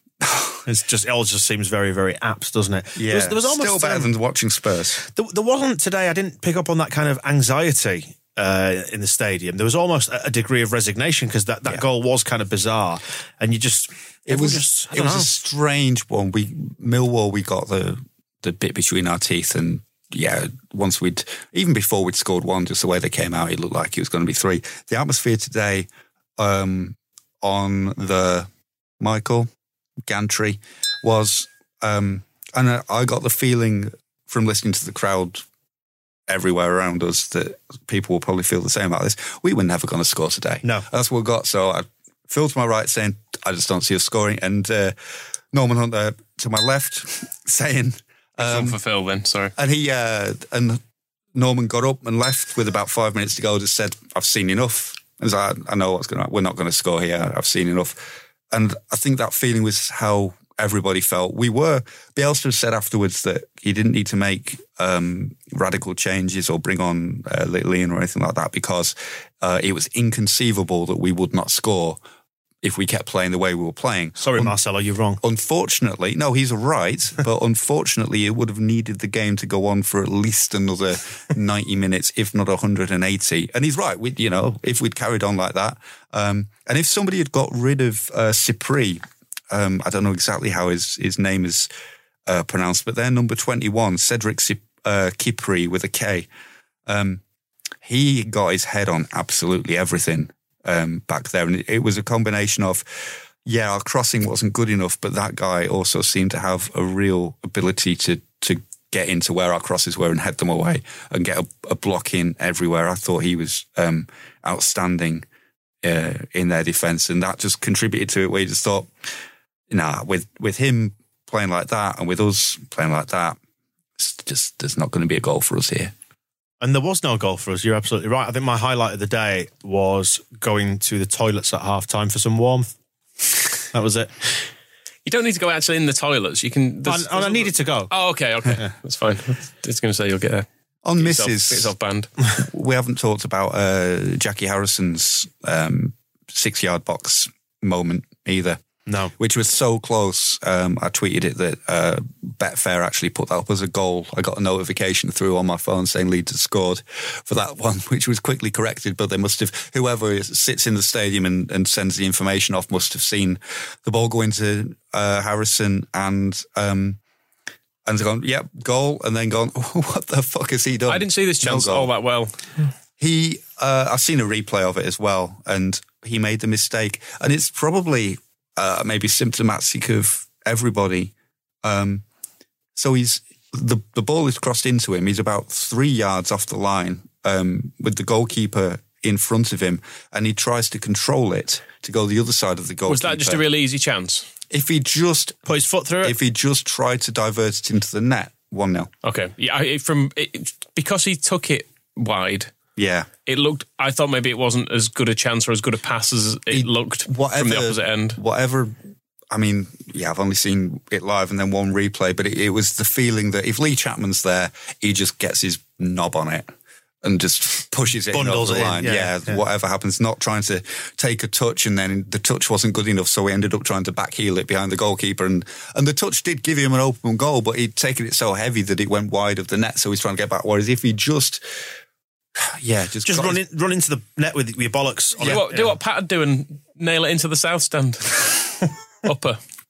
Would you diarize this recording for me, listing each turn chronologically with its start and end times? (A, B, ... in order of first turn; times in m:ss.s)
0:00.2-0:00.6 A
0:00.7-0:04.1 B
0:03.0-0:05.0 A
0:05.0-0:15.3 B
0:14.3-0:28.5 A
0:29.0-0:29.5 A
0:30.1-0:35.4 A
0:36.3-0:45.0 A
0:45.5-0:48.8 A
0:48.4-0:49.5 C
0:49.6-0:50.8 A
0:51.4-1:12.0 A
1:12.6-1:14.6 A
1:14.2-1:15.2 B
1:15.2-1:31.7 A
1:32.3-1:36.3 A
1:36.9-1:37.2 A
1:37.8-1:55.3 A
1:55.8-1:58.9 A
1:59.7-2:03.4 A
2:04.0-2:05.9 A
2:06.6-2:12.7 B
2:13.7-2:14.3 B
2:15.0-2:20.5 C
2:16.8-2:17.9 B
2:20.8-2:21.7 A
2:21.0-2:22.1 C
2:22.4-2:28.6 A
2:28.9-2:29.1 B
2:29.2-2:47.0 A
2:47.9-2:51.9 A
2:50.9-2:52.4 C
2:53.0-3:02.0 A
3:02.8-3:13.4 A
3:12.9-3:14.3 C
3:14.5-3:15.5 A
3:15.5-3:16.2 B
3:16.0-3:18.9 A
3:19.0-3:22.5 C
3:22.8-3:23.1 A
3:23.3-3:28.2 C
3:26.5-3:28.8 A
3:29.3-3:36.5 A
3:37.0-3:51.7 A
3:38.1-3:39.4 B
3:52.4-3:53.4 A
3:53.0-3:55.7 B
3:55.2-3:59.4 C